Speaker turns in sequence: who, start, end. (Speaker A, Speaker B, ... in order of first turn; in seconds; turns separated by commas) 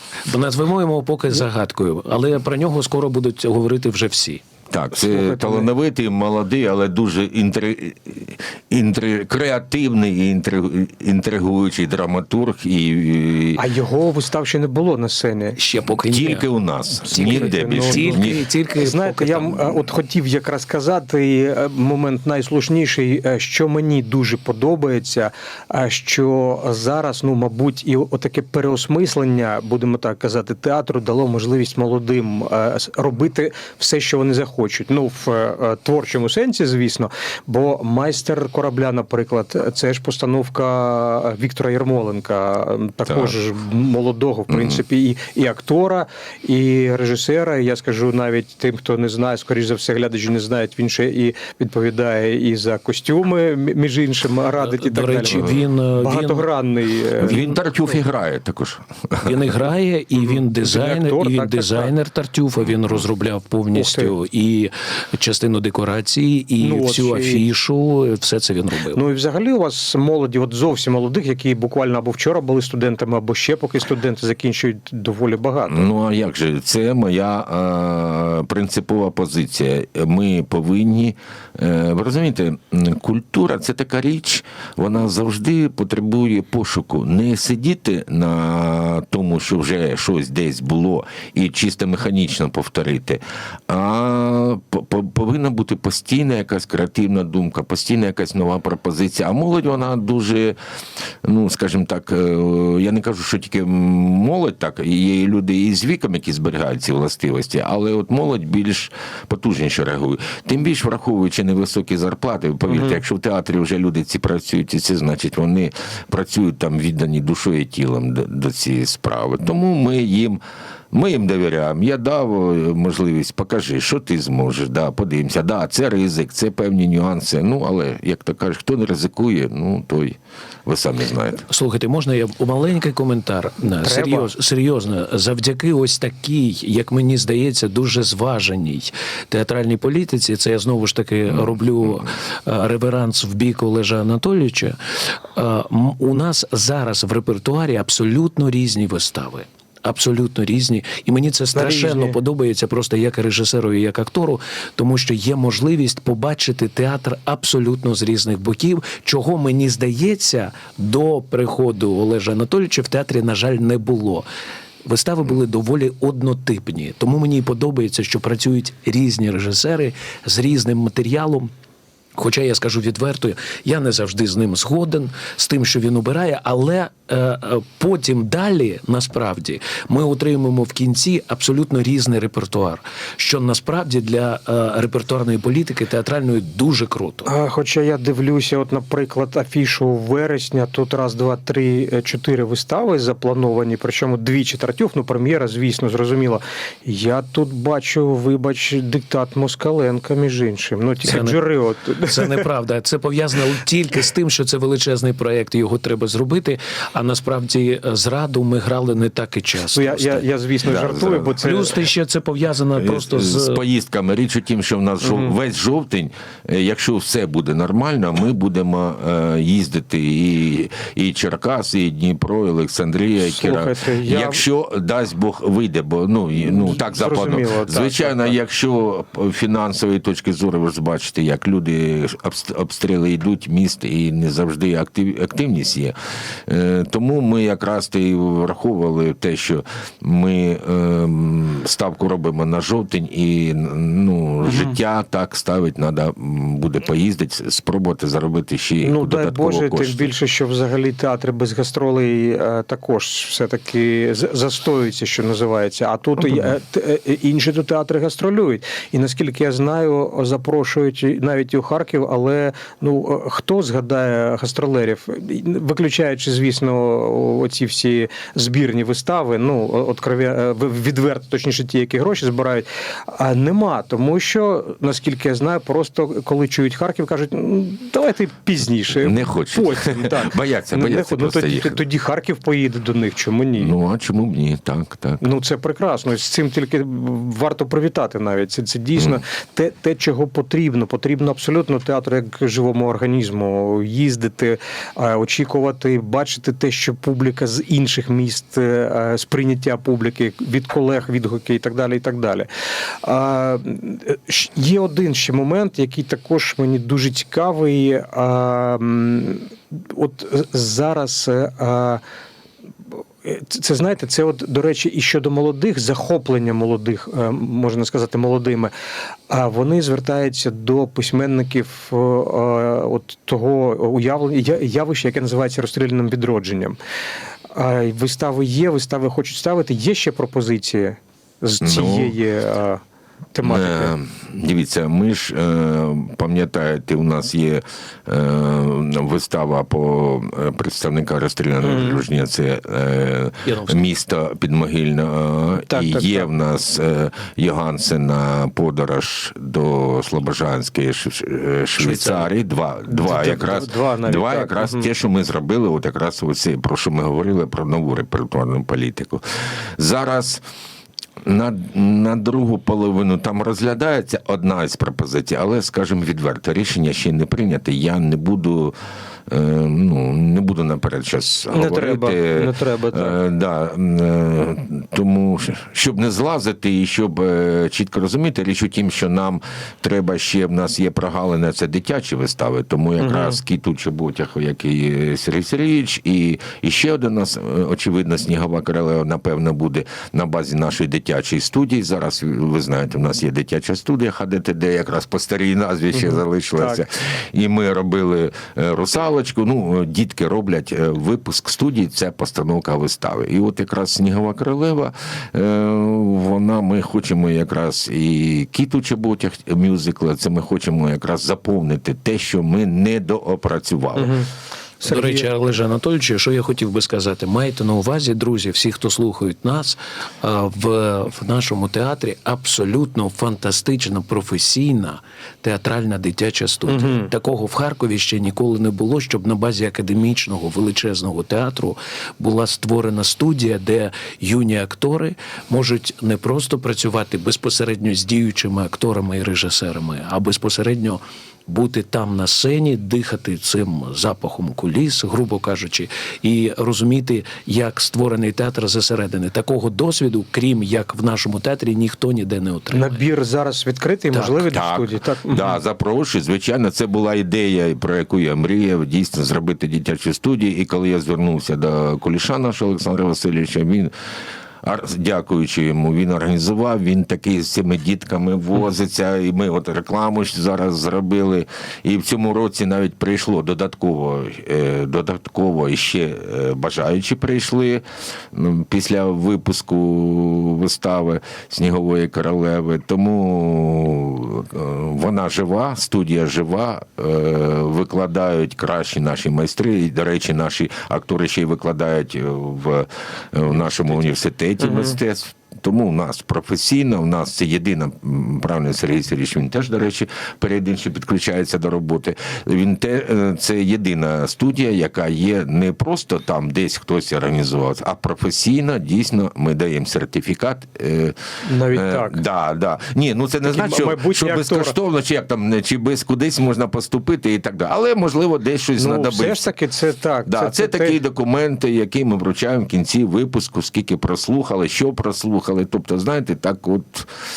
Speaker A: 0.2-4.4, Speaker B: 4.7-13.6, Speaker C: 5.0-5.7, Speaker C: 13.6-15.6, Speaker A: 15.6-16.5, Speaker B: 16.1-18.5, Speaker A: 17.1-19.7, Speaker C: 17.1-18.3, Speaker C: 18.8-57.5, Speaker B: 43.1-43.4, Speaker B: 44.5-44.8, Speaker A: 54.6-56.5, Speaker B: 55.3-55.6, Speaker B: 57.2-59.4, Speaker A: 59.2-69.0, Speaker C: 60.2-61.9, Speaker C: 63.7-64.1, Speaker C: 66.6-67.4, Speaker C: 68.9-75.9, Speaker B: 75.7-100.6, Speaker B: 101.2-120.4, Speaker C: 112.7-113.0, Speaker B: 120.9-131.4, Speaker A: 131.5-164.3, Speaker C: 133.8-134.3, Speaker C: 151.6-152.2, Speaker A: 164.8-171.5, Speaker A: 172.2-187.3, Speaker C: 187.3-202.5, Speaker A: 201.0-201.4, Speaker A: 202.0-210.3, Speaker C: 209.7-211.8, Speaker B: 210.7-211.4, Speaker A: 211.4-213.6, Speaker B: 212.8-235.9, Speaker C: 215.0-215.3, Speaker C: 223.2-224.4, Speaker C: 226.4-228.4, Speaker B: 236.5-250.1, Speaker C: 244.5-244.8, Speaker C: 248.8-283.7, Speaker B: 279.0-281.8, Speaker B: 283.6-285.2, Speaker C: 285.2-302.5, Speaker C: 303.0-312.0, Speaker C: 313.2-318.7, Speaker C: 319.3-326.8, Speaker C: 327.5-332.8, Speaker B: 331.6-332.2, Speaker C: 333.3-333.9, Speaker B: 333.4-360.4, Speaker C: 341.6-342.0, Speaker A: 343.4-343.8, Speaker C: 345.7-346.3, Speaker A: 351.8-352.3, Speaker C: 352.9-354.9, Speaker B: 361.2-368.8, Speaker B: 369.3-414.2, Speaker C: 371.5-373.2, Speaker C: 383.0-383.4, Speaker C: 395.9-396.8, Speaker C: 414.0-414.3, Speaker C: 414.8-415.3, Speaker A: 414.9-453.0, Speaker C: 426.7-427.1, Speaker C: 452.7-455.6, Speaker B: 454.5-463.9, Speaker B: 464.6-511.2, Speaker C: 494.6-495.0, Speaker C: 511.4-512.2, Speaker B: 511.7-519.5, Speaker C: 513.4-514.8, Speaker C: 518.8-521.0, Speaker B: 520.3-527.1